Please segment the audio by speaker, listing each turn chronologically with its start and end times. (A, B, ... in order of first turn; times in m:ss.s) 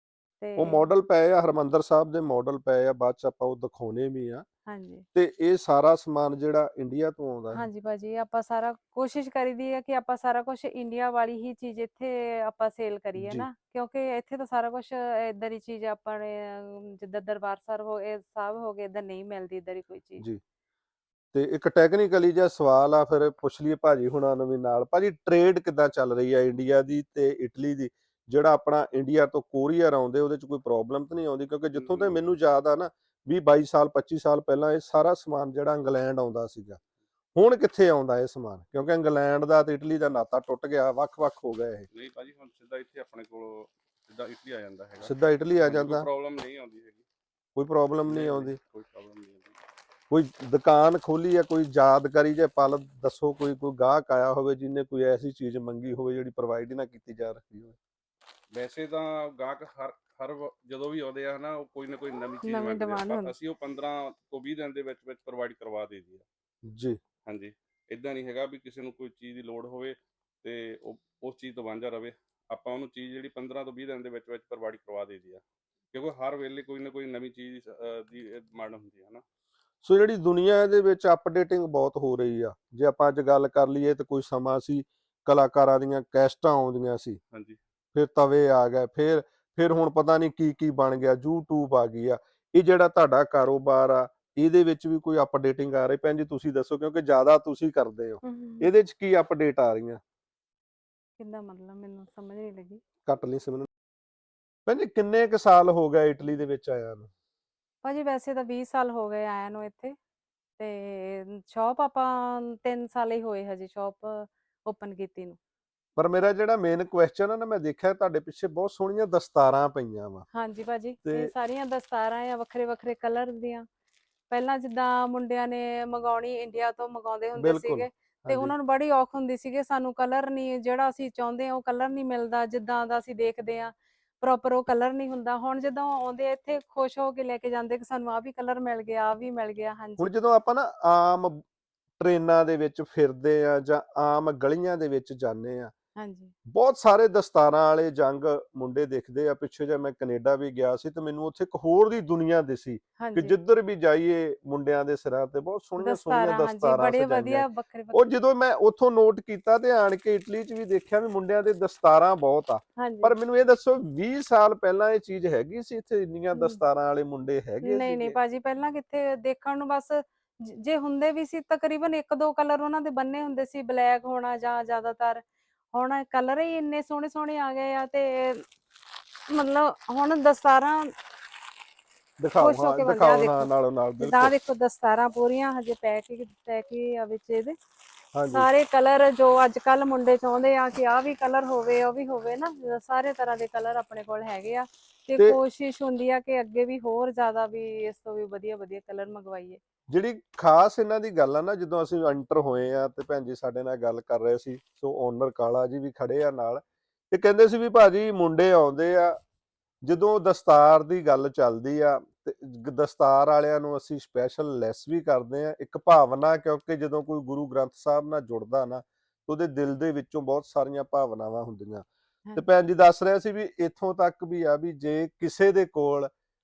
0:00.4-0:00.8 A
0:00.6-0:04.4 B
0:04.7-0:05.0 A
0:05.2-0:07.6 B
0:07.5-0:20.2 A
0:13.2-0:13.5 B
0:21.3-0:36.8 B
0:31.7-0:32.2 C
0:37.4-0:41.9 B
0:41.9-0:47.1 C
0:45.0-0:46.1 B
0:47.6-0:48.6 B
0:48.1-0:49.6 C
0:50.1-0:57.8 B
0:58.5-1:06.3 C
1:02.4-1:03.4 A
1:06.7-1:07.0 B
1:07.3-1:15.4 C
1:15.9-1:19.2 C
1:19.8-1:27.2 B
1:27.3-1:27.6 C
1:28.0-1:40.0 B
1:38.2-1:38.7 A
1:41.2-1:42.8 A
1:43.1-1:43.7 B
1:44.7-1:47.1 B
1:47.8-1:50.0 A
1:50.6-1:55.4 A
1:56.0-2:00.3 B
2:00.3-2:03.7 A
2:01.0-2:01.3 B
2:04.3-2:20.1 A
2:07.4-2:08.5 B
2:20.0-2:21.4 B
2:22.0-2:25.7 B
2:26.0-2:26.3 A
2:26.5-2:48.2 B
2:33.0-2:33.4 A
2:35.8-2:38.1 A
2:42.8-2:43.2 A
2:46.4-2:46.6 A
2:47.6-2:58.4 A
2:59.3-3:00.9 A
3:02.2-3:04.3 B
3:02.4-3:07.6 A
3:08.1-3:08.5 B
3:08.3-3:19.6 A
3:19.9-3:29.2 B
3:29.8-3:41.9 B
3:42.4-3:46.1 B